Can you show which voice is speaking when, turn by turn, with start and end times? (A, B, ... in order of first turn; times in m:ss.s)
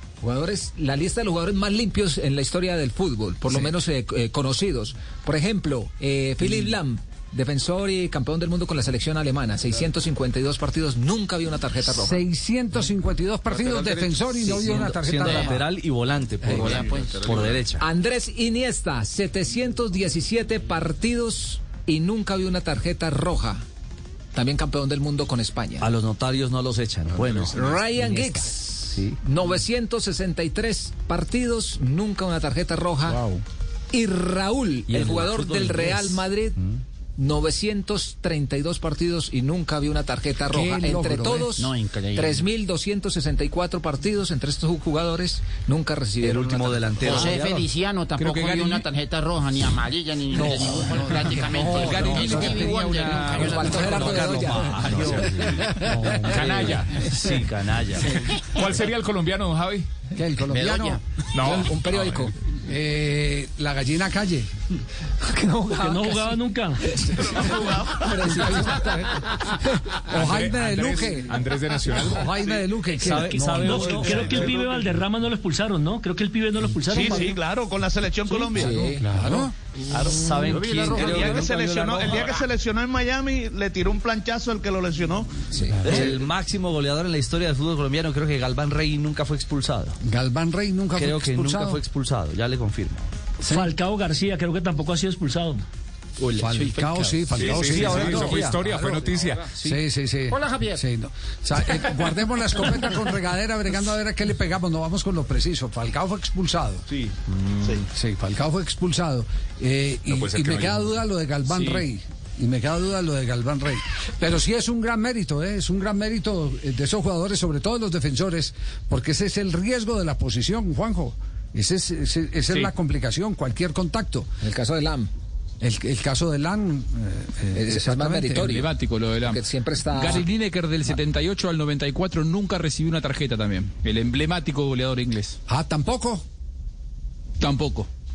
0:00.2-0:12.2 A
0:11.9-0:15.6 B
0:14.4-0:17.8 C
0:16.6-0:17.6 D
0:17.8-0:23.6 A
0:24.3-0:25.9 A
0:25.8-0:28.3 C
0:27.6-0:33.3 A
0:28.9-0:29.2 C
0:33.9-0:47.2 A
0:34.9-0:36.2 C
0:40.5-0:41.5 B
0:41.6-0:42.5 D
0:46.2-0:47.7 C
0:47.1-0:54.1 D
0:48.2-0:48.9 E
0:50.3-0:53.8 B
0:51.6-0:54.1 E
0:53.3-0:56.4 A
0:53.7-0:55.7 C
0:55.9-0:57.5 F
0:56.4-0:58.2 C
0:58.4-0:59.9 F
1:00.2-1:01.0 B
1:00.5-1:01.5 D
1:01.3-1:02.2 F
1:01.5-1:02.3 A
1:02.5-1:04.5 B
1:05.2-1:10.0 A
1:05.7-1:06.9 G
1:07.2-1:08.7 H
1:10.1-1:14.6 B
1:10.1-1:12.5 F
1:13.0-1:14.4 C
1:13.1-1:17.4 G
1:16.9-1:18.9 H
1:18.3-1:19.1 A
1:19.0-1:19.5 F
1:19.1-1:19.6 B
1:19.9-1:21.5 C
1:20.3-1:22.4 D
1:20.8-1:25.4 H
1:25.5-1:26.0 A
1:25.8-1:30.0 C
1:25.8-1:26.1 B
1:30.0-1:31.8 B
1:30.9-1:33.1 C
1:33.4-1:33.7 B
1:33.4-1:35.6 G
1:36.2-1:38.6 C
1:36.4-1:39.0 B
1:37.3-1:39.5 F
1:39.4-1:39.8 C
1:39.6-1:46.8 B
1:40.3-1:40.8 D
1:47.9-2:04.3 B
1:50.1-1:50.7 C
2:04.4-2:05.1 A
2:05.6-2:08.5 B
2:07.5-2:10.3 A
2:08.4-2:15.4 E
2:15.5-2:16.2 B
2:17.4-2:17.9 E